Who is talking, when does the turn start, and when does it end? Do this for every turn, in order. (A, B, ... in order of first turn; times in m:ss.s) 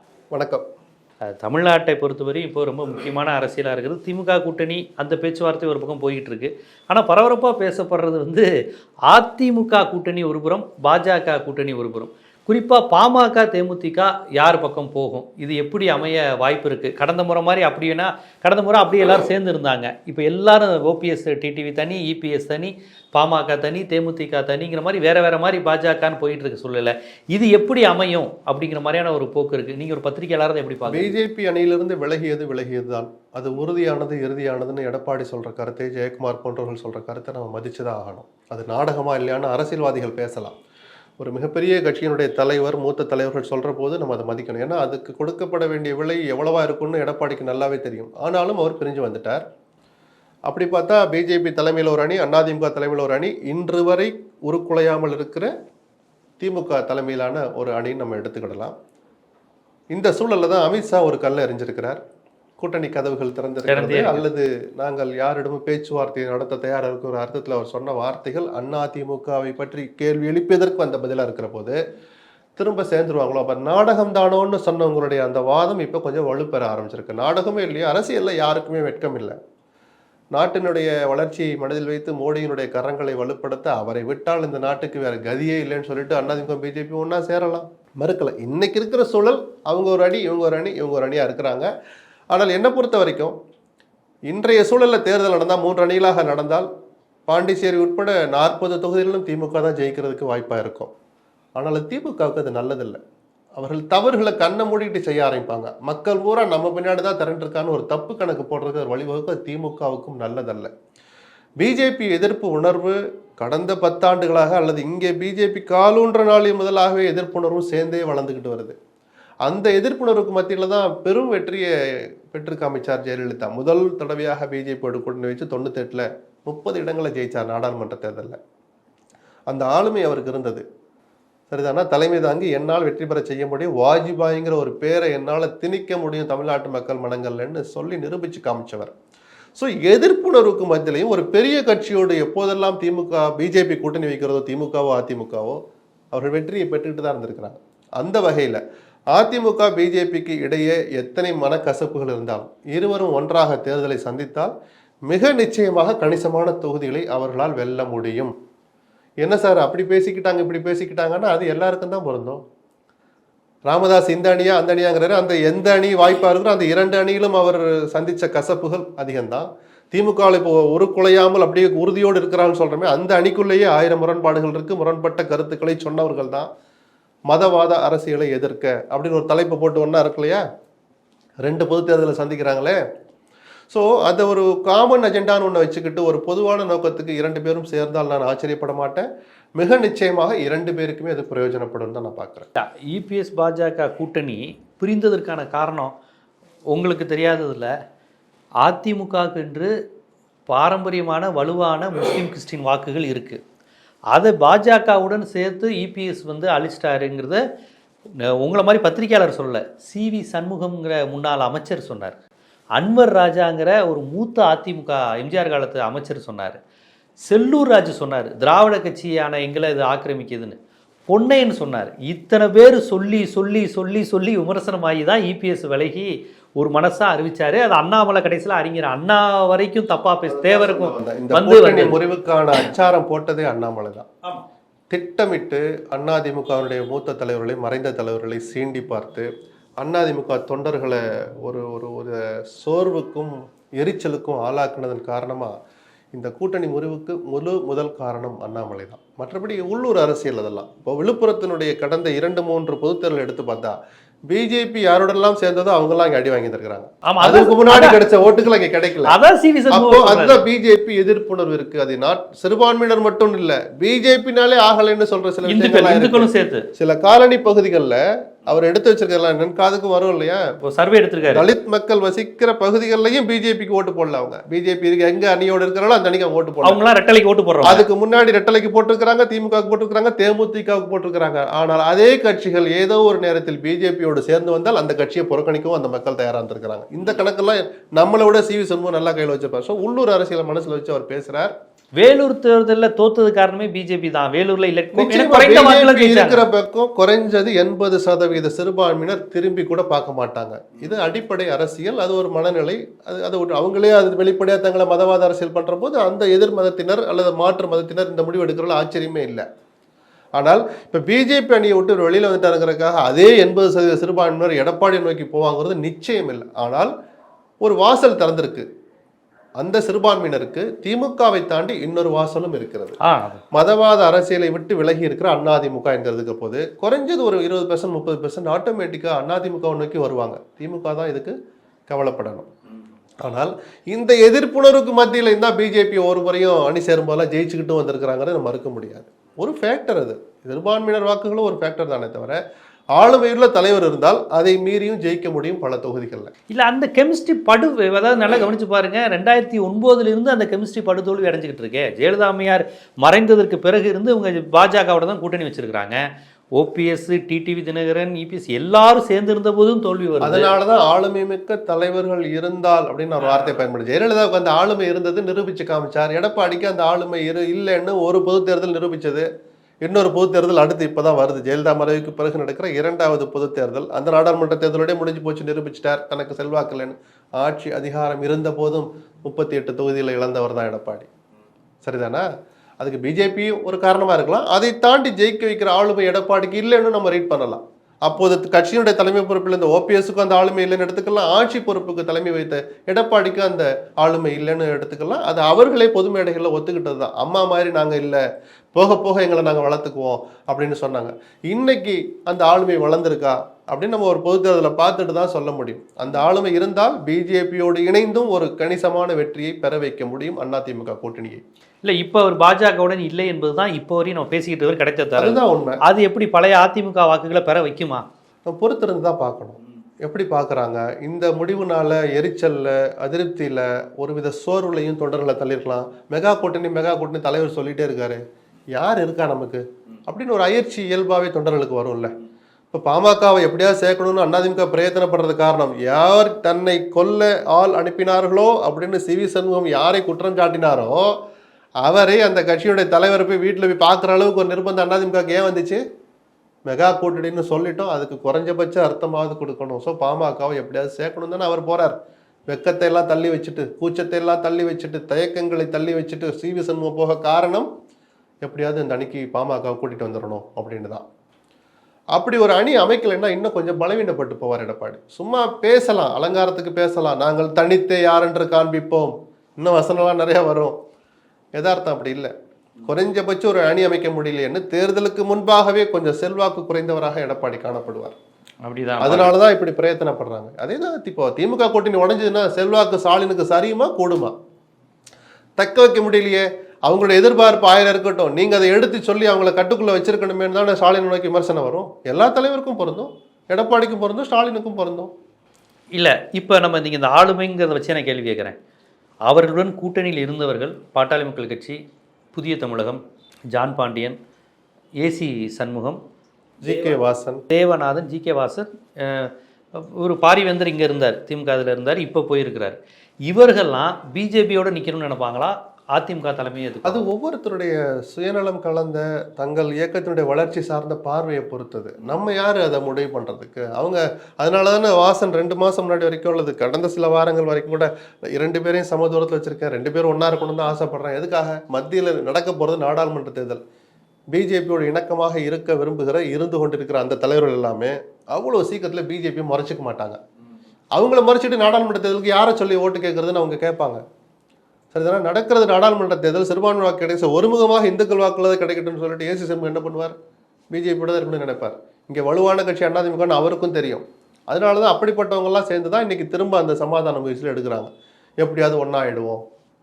0:00.3-0:00.6 A
0:01.2-0:08.5 B
0:09.1-0:31.1 B
0:30.9-0:40.6 A
0:41.2-0:49.4 A
0:50.5-0:55.5 A
0:56.4-0:58.7 A
0:59.9-1:02.0 A
1:02.6-1:11.8 A
1:03.7-1:04.2 B
1:12.6-1:19.4 A
1:20.3-1:31.7 A
1:32.3-1:33.3 A
1:34.3-1:36.7 A
1:37.3-1:40.9 A
1:41.6-1:43.0 A
1:43.6-1:50.7 A
1:51.6-1:58.8 A
1:59.4-2:01.7 A
2:02.3-2:08.4 A
2:09.5-2:10.6 A
2:11.5-2:18.9 A
2:19.6-2:25.6 A
2:26.1-2:28.6 A
2:29.1-2:34.5 A
2:35.1-2:38.3 A
2:39.2-2:42.4 A
2:43.7-2:56.5 A
2:57.3-3:00.4 A
3:01.4-3:02.8 A
3:03.7-3:09.1 A
3:09.6-3:12.5 A
3:12.6-3:15.9 B
3:16.7-3:17.7 B
3:18.6-3:19.7 B
3:20.5-3:23.4 B
3:24.1-3:27.4 B
3:28.2-3:32.2 B
3:32.8-3:36.6 B
3:37.2-3:40.6 B
3:41.1-3:52.0 B
3:50.3-3:54.1 A
3:54.9-3:59.3 A
3:59.8-4:05.5 A
4:06.1-4:13.8 A
4:14.3-4:19.2 A
4:17.0-4:18.0 B
4:19.0-4:20.4 B
4:19.7-4:30.4 A
4:25.4-4:26.7 B
4:30.6-4:31.5 B
4:31.3-4:36.8 A
4:36.6-4:37.8 B
4:37.6-4:51.5 A
4:52.0-4:56.4 B
4:54.9-5:09.4 A
5:10.4-5:16.9 A
5:17.6-5:18.6 A
5:19.6-5:23.0 A
5:23.0-5:23.4 B
5:23.5-5:31.4 A
5:31.9-5:32.5 A
5:33.2-5:42.4 A
5:43.0-5:46.3 A
5:46.5-5:56.0 B
5:56.6-6:00.5 B
6:00.2-6:09.3 A
6:09.8-6:21.1 A
6:21.8-6:22.2 A
6:22.8-6:38.2 A
6:38.7-6:51.4 A
6:51.8-6:58.0 B
6:55.2-6:55.8 A
6:58.4-7:08.2 A
7:08.7-7:12.1 A
7:12.7-7:21.1 A
7:21.8-7:25.8 A
7:26.7-7:32.0 A
7:32.5-7:37.7 A
7:38.4-7:41.0 A
7:42.1-7:50.8 A
7:51.6-7:52.3 A
7:52.8-7:58.1 A
7:58.6-7:59.3 B
7:59.0-8:04.3 A
8:05.6-8:15.1 A
8:15.9-8:18.6 B
8:19.3-8:21.8 B
8:22.3-8:23.0 B
8:23.5-8:24.2 B
8:25.0-8:26.0 B
8:26.6-8:27.4 A
8:27.5-8:37.0 B
8:36.8-8:53.6 A
8:54.3-9:00.2 A
9:01.0-9:04.0 A
9:04.9-9:10.1 A
9:10.7-9:17.9 A
9:18.4-9:19.4 A